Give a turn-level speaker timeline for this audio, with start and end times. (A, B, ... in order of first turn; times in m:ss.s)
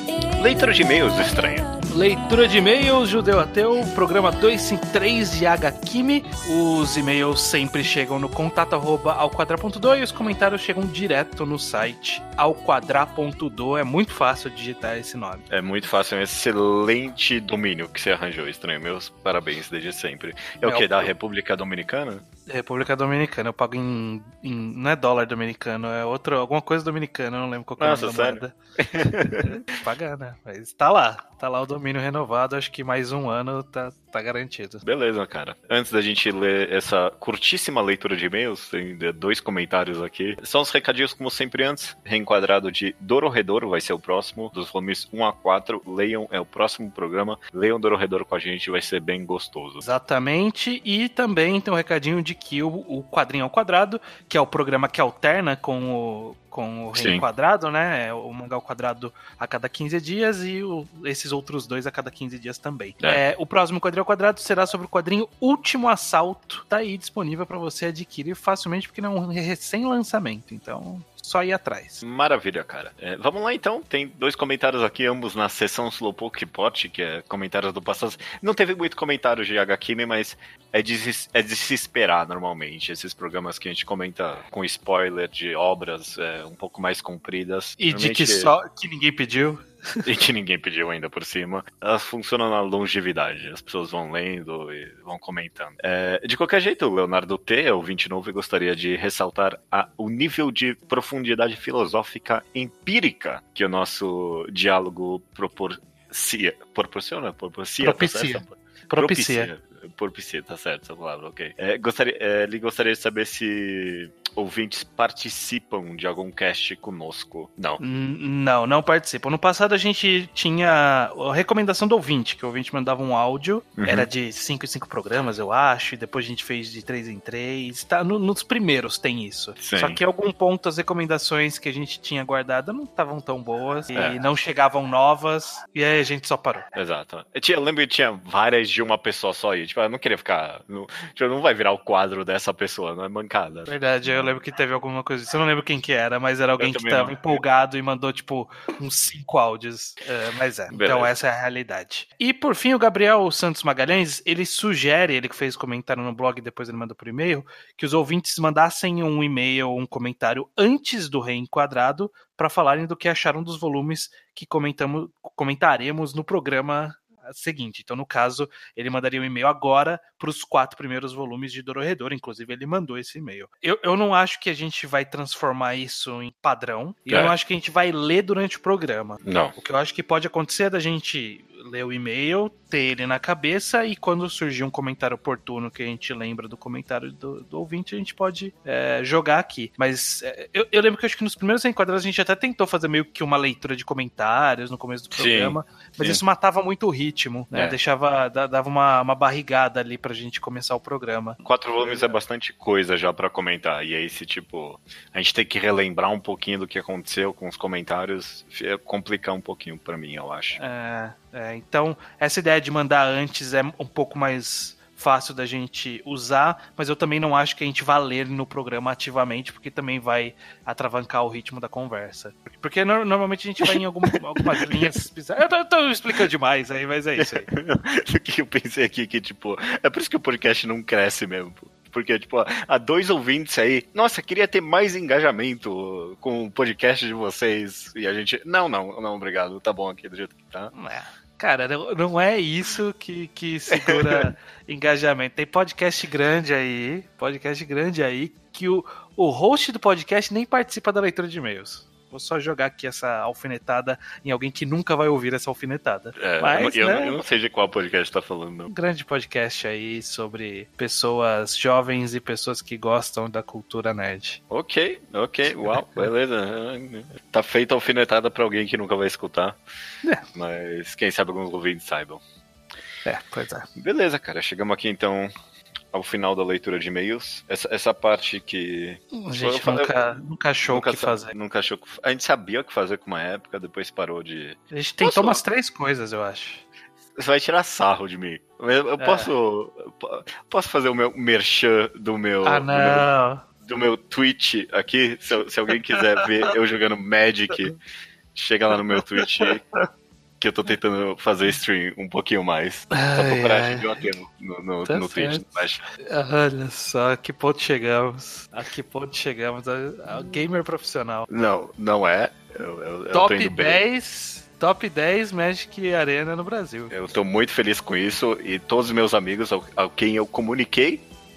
0:00.4-0:01.7 A
0:01.9-0:15.4 B
0:15.5-0:22.2 A
0:20.6-0:21.1 B
0:22.5-0:28.6 B
0:27.8-0:29.5 A
0:29.4-0:34.8 B
0:34.8-0:49.9 A
0:49.8-1:12.0 B
0:56.9-0:57.2 A
1:12.0-1:28.5 A
1:27.8-1:30.0 B
1:30.0-1:57.8 A
1:47.8-1:49.5 B
1:57.8-2:16.7 B
2:03.8-2:04.1 A
2:09.6-2:10.0 A
2:13.9-2:14.2 A
2:16.7-2:24.4 A
2:23.7-3:22.2 B
2:26.6-2:27.4 A
2:30.7-2:31.1 A
2:57.1-2:57.3 A
2:59.2-2:59.6 A
3:15.2-3:16.2 A
3:21.4-3:30.6 A
3:30.6-3:47.5 B
3:47.2-4:00.7 A
4:00.7-4:17.2 B
4:03.7-4:04.3 A
4:16.2-4:18.7 A
4:18.7-4:24.4 B
4:24.5-4:29.6 A
4:25.7-4:26.1 B
4:30.3-4:32.2 A
4:33.0-4:33.7 B
4:33.8-4:35.3 A
4:35.9-4:40.0 A
4:39.1-4:41.3 B
4:40.6-4:45.4 A
4:44.7-4:46.6 B
4:47.2-4:53.1 A
4:49.0-4:49.3 B
4:52.4-4:53.4 B
4:53.6-4:57.8 A
4:56.0-4:56.5 B
4:58.3-4:59.6 A
4:59.2-4:59.8 B
5:00.4-5:05.8 A
5:02.9-5:04.0 B
5:04.9-5:11.3 B
5:11.3-5:13.8 A
5:13.1-5:17.0 B
5:16.9-5:21.1 A